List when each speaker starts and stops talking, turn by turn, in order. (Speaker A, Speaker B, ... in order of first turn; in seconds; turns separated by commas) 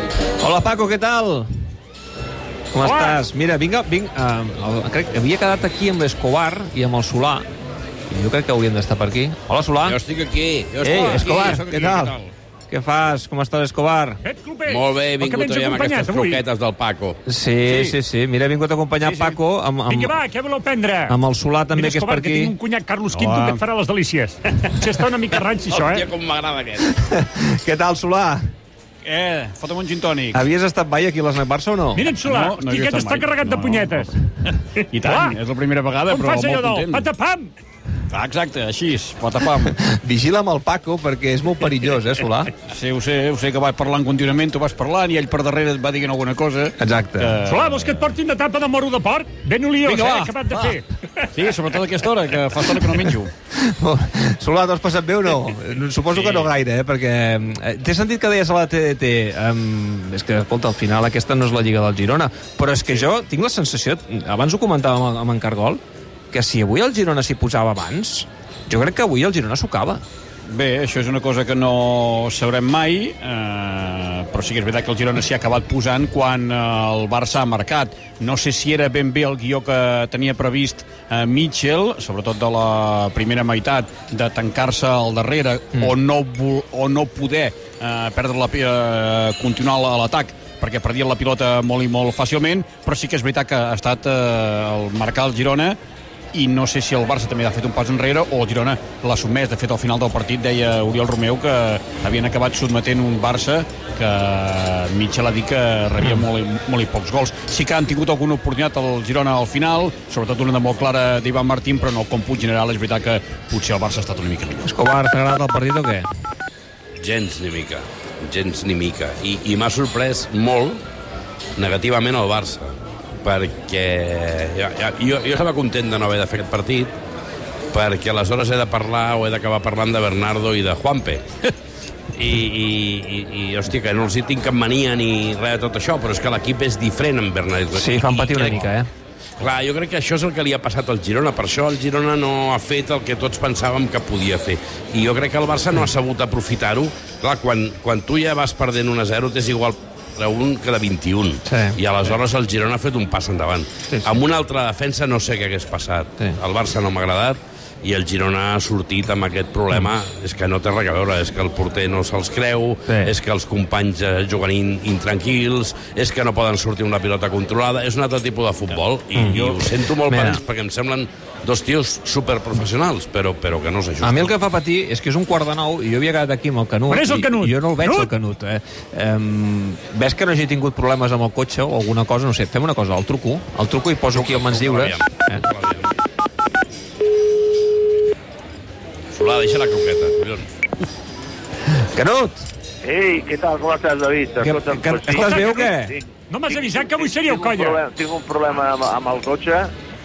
Speaker A: 0.4-1.5, Speaker A: 2.7-7.5, Speaker B: 2.8-3.2, Speaker A: 8.1-10.0, Speaker C: 9.8-12.3, Speaker A: 10.8-12.2, Speaker A: 12.7-14.2, Speaker B: 14.2-16.4, Speaker C: 14.7-17.2, Speaker A: 17.3-20.1, Speaker D: 17.6-17.9, Speaker D: 19.0-19.4, Speaker B: 19.9-21.2, Speaker A: 21.1-22.5, Speaker B: 21.7-26.1, Speaker D: 23.1-23.6, Speaker C: 25.7-26.9, Speaker A: 26.9-28.4, Speaker D: 29.0-30.4, Speaker A: 30.3-32.0, Speaker B: 31.9-34.1, Speaker D: 32.1-34.1, Speaker B: 34.8-35.4, Speaker D: 34.9-37.1, Speaker B: 36.1-37.5, Speaker D: 38.1-39.8, Speaker A: 39.7-42.5, Speaker D: 42.7-48.1, Speaker A: 46.8-47.4, Speaker B: 47.4-51.3, Speaker D: 49.8-50.8, Speaker D: 51.3-53.3, Speaker A: 53.5-65.8, Speaker D: 56.1-56.5, Speaker A: 66.3-70.0, Speaker D: 70.5-95.8, Speaker D: 96.3-114.7, Speaker A: 114.6-116.0, Speaker C: 117.0-120.8, Speaker C: 121.5-126.9, Speaker C: 127.7-131.5, Speaker C: 132.1-138.6, Speaker A: 137.7-138.9, Speaker C: 139.4-174.3, Speaker A: 151.5-151.8, Speaker A: 153.9-154.2, Speaker A: 162.9-163.1, Speaker A: 169.2-170.4, Speaker A: 174.0-185.4, Speaker B: 176.9-178.1, Speaker C: 184.1-185.9, Speaker C: 189.1-190.5, Speaker A: 191.9-192.5, Speaker E: 192.8-199.7, Speaker A: 194.4-195.9, Speaker B: 195.1-195.7, Speaker B: 196.3-197.8